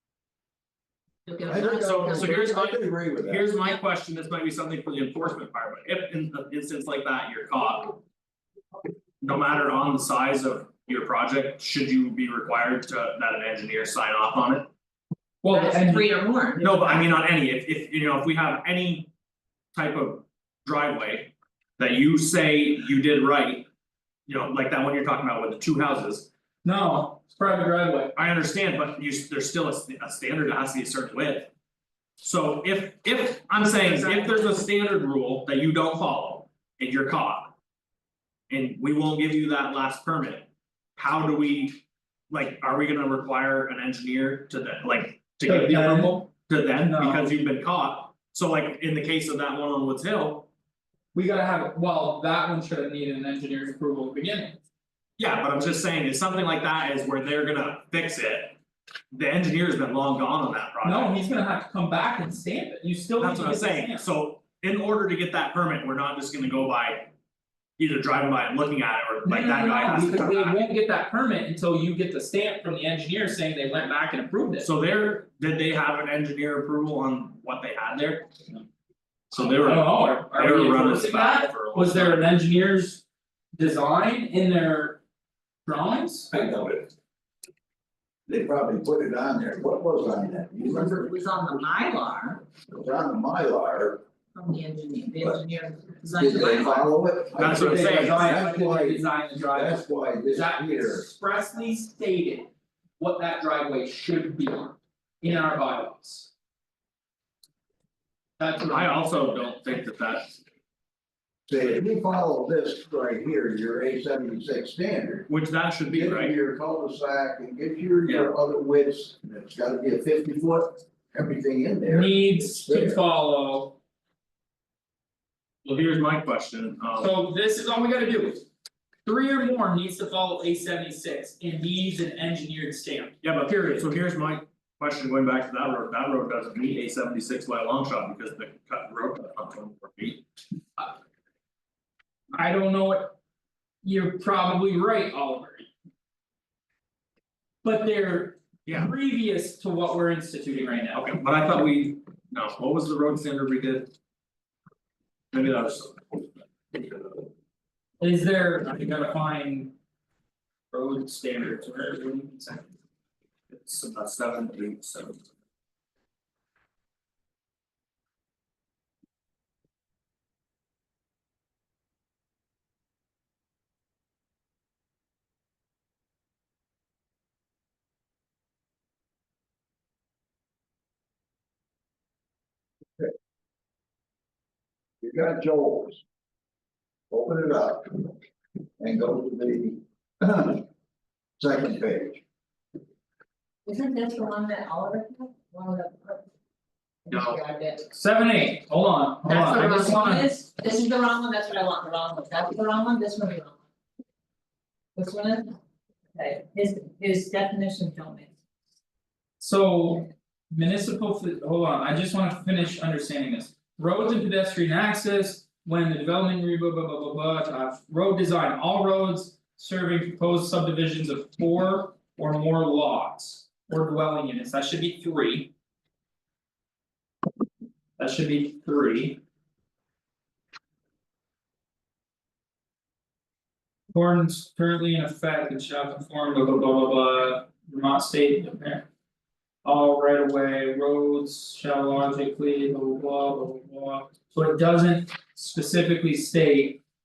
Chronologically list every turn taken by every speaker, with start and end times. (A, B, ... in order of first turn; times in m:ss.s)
0:01.3-0:02.7 A
0:01.5-0:03.5 B
0:01.5-0:08.0 C
0:09.2-0:14.7 C
0:15.4-0:16.1 D
0:15.5-0:17.2 A
0:16.6-0:19.1 C
0:19.7-0:23.6 C
0:24.2-0:26.3 C
0:26.6-0:28.1 D
0:28.1-0:31.5 C
0:32.2-0:37.5 C
0:38.5-0:50.5 C
0:45.4-0:46.3 D
0:46.8-0:47.3 D
0:51.1-0:54.6 D
0:55.2-0:58.6 C
0:59.1-1:01.2 C
1:00.8-1:04.1 D
1:03.2-1:07.1 C
1:07.8-1:10.6 C
1:09.2-1:14.7 D
1:14.6-1:18.4 C
1:19.3-1:22.3 C
1:19.5-1:23.0 D
1:23.6-1:25.0 D
1:25.6-1:26.4 D
1:26.3-1:26.9 B
1:28.3-1:31.5 B
1:30.7-1:32.4 A
1:32.7-1:34.0 B
1:34.3-1:36.9 A
1:36.1-1:41.0 B
1:37.3-1:38.4 C
1:37.5-1:46.3 D
1:48.4-1:49.2 D
1:48.6-1:50.4 C
1:51.5-1:55.3 B
1:55.3-1:56.3 C
1:55.9-2:03.0 B
1:58.0-1:58.3 C
2:01.8-2:03.8 D
2:05.6-2:07.1 C
2:07.0-2:08.4 D
2:09.0-2:13.8 D
2:13.2-2:20.2 C
2:22.3-2:23.2 D
2:23.8-2:25.7 D
2:27.6-2:31.1 D
2:28.6-2:28.9 C
2:30.9-2:33.9 C
2:35.3-2:37.3 C
2:38.0-2:39.7 D
2:40.7-2:42.7 D
2:43.5-2:45.3 C
3:05.0-3:06.0 B
3:07.1-3:08.2 B
3:08.8-3:10.7 B
3:11.4-3:12.2 B
3:13.6-3:16.2 A
3:17.0-3:17.9 A
3:17.1-3:17.4 C
3:17.9-3:20.3 D
3:19.2-3:23.6 A
3:24.9-3:25.5 A
3:26.1-3:28.3 A
3:29.4-3:45.5 D
3:48.0-3:49.2 D
3:53.9-3:58.8 D
3:59.6-4:06.8 D